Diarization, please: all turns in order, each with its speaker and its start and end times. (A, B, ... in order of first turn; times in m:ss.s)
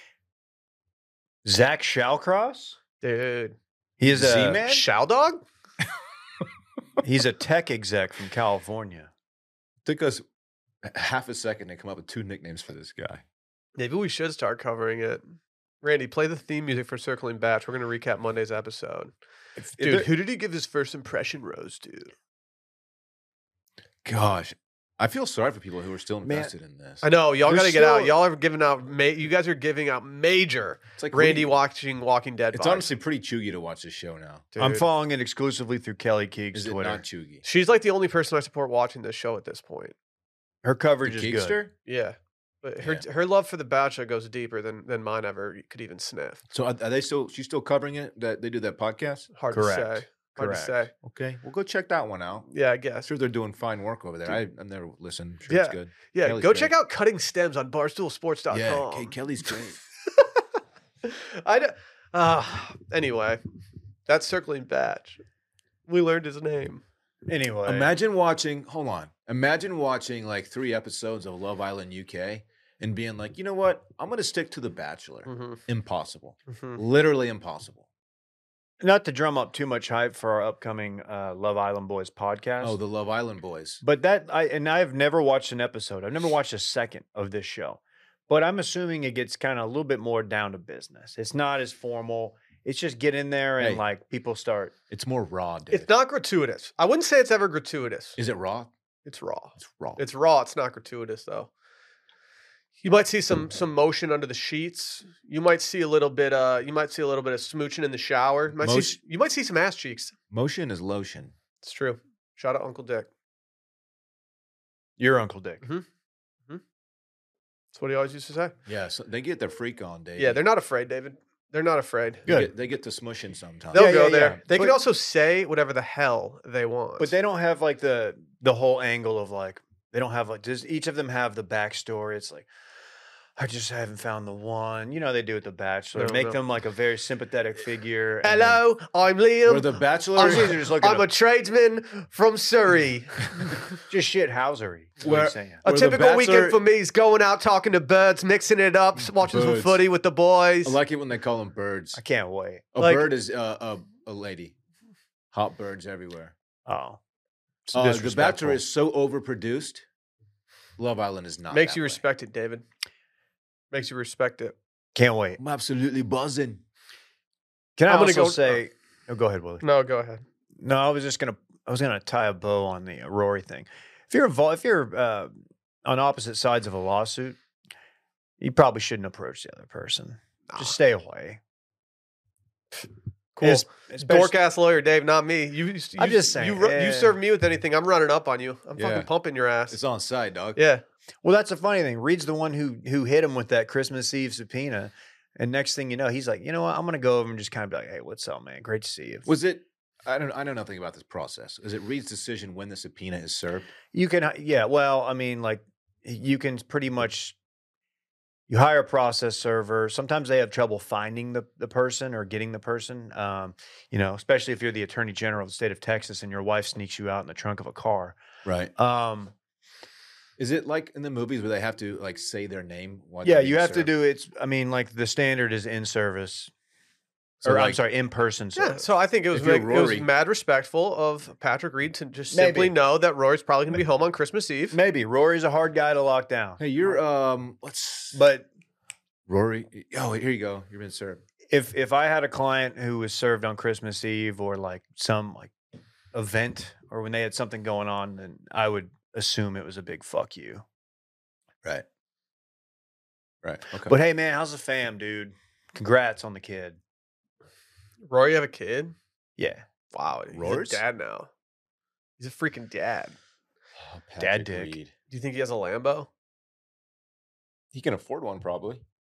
0:01.4-0:02.8 A
0:03.0-0:03.6 B
0:04.0-0:04.6 A
0:04.1-0:04.9 C
0:04.6-0:05.4 B
0:07.0-0:09.1 A
0:09.8-0:10.2 C
0:10.8-0:13.2 C
0:13.8-0:15.2 B
0:15.8-0:19.1 B
0:19.6-0:20.1 A
0:19.8-0:22.1 B
0:24.0-0:27.1 C
0:26.2-0:26.5 A
0:27.0-0:32.9 B
0:27.4-0:28.2 A
0:31.0-0:31.5 C
0:32.5-0:34.5 C
0:34.5-0:34.9 B
0:34.6-0:37.0 A
0:36.5-0:37.4 C
0:37.4-0:40.0 B
0:40.6-0:41.6 A
0:41.0-0:41.7 C
0:41.9-0:46.4 B
0:46.5-0:49.3 C
0:49.4-0:50.9 B
0:49.5-0:50.8 A
0:51.0-0:52.5 C
0:52.5-0:53.1 B
0:53.0-0:56.7 C
0:55.5-0:59.1 B
0:58.5-0:59.8 C
1:00.2-1:00.4 B
1:01.0-1:03.4 B
1:04.1-1:05.2 B
1:05.9-1:06.8 B
1:07.3-1:07.9 A
1:07.7-1:17.9 C
1:15.3-1:15.6 B
1:16.5-1:16.8 B
1:18.8-1:22.8 A
1:22.6-1:23.8 C
1:23.8-1:34.7 A
1:33.6-1:33.8 C
1:34.9-1:35.9 C
1:35.7-1:38.2 B
1:38.2-1:38.7 C
1:39.1-1:41.5 B
1:39.6-1:40.0 C
1:42.8-1:50.1 B
1:48.6-1:49.0 C
1:50.3-1:51.3 C
1:51.6-1:53.1 B
1:55.0-1:55.6 A
1:57.7-1:58.5 B
1:58.7-2:00.4 C
2:00.2-2:02.2 B
2:02.3-2:02.5 A
2:02.3-2:04.3 C
2:03.7-2:04.8 A
2:03.7-2:07.1 B
2:07.0-2:12.5 A
2:13.4-2:18.6 A
2:16.0-2:16.4 B
2:18.2-2:23.6 B
2:19.4-2:20.8 C
2:20.2-2:21.0 A
2:23.8-2:25.6 A
2:25.0-2:26.6 C
2:25.6-2:30.8 B
2:29.2-2:29.8 C
2:30.6-2:32.0 C
2:32.0-2:32.7 A
2:32.7-2:34.6 C
2:32.8-2:33.1 B
2:35.3-2:36.3 C
2:36.7-2:37.0 A
2:37.7-2:38.6 A
2:37.7-2:39.8 C
2:40.8-2:42.0 C
2:41.5-2:42.6 B
2:43.7-2:44.6 B
2:45.0-2:45.4 A
2:45.4-2:46.6 C
2:47.8-2:49.6 A
2:47.9-2:48.6 B
2:49.6-2:50.2 B
2:50.6-2:55.3 A
2:55.8-2:57.4 A
2:58.4-3:01.4 A
3:03.4-3:09.8 B
3:03.4-3:04.4 A
3:06.0-3:07.2 A
3:08.8-3:09.1 C
3:09.7-3:10.6 C
3:10.6-3:10.8 B
3:11.2-3:19.3 A
3:19.3-3:23.7 C
3:23.9-3:27.4 A
3:28.5-3:38.2 A
3:38.4-3:38.7 C
3:38.8-3:39.3 A
3:40.4-3:43.9 C
3:43.2-3:46.5 A
3:47.4-3:47.8 C
3:47.4-3:48.8 A
3:48.6-3:54.8 B
3:49.3-3:50.1 C
3:52.3-3:52.8 A
3:54.7-3:56.6 A
3:56.6-3:58.2 C
3:58.1-3:58.5 A
3:59.3-4:01.2 C
4:01.5-4:05.5 A
4:06.1-4:10.6 A
4:13.4-4:14.0 C
4:13.8-4:16.8 A
4:18.1-4:19.0 B
4:19.4-4:19.6 A
4:19.9-4:21.3 B
4:20.3-4:20.8 C
4:22.2-4:23.2 B
4:23.8-4:24.9 C
4:24.2-4:24.8 A
4:25.1-4:26.1 B
4:27.7-4:28.8 C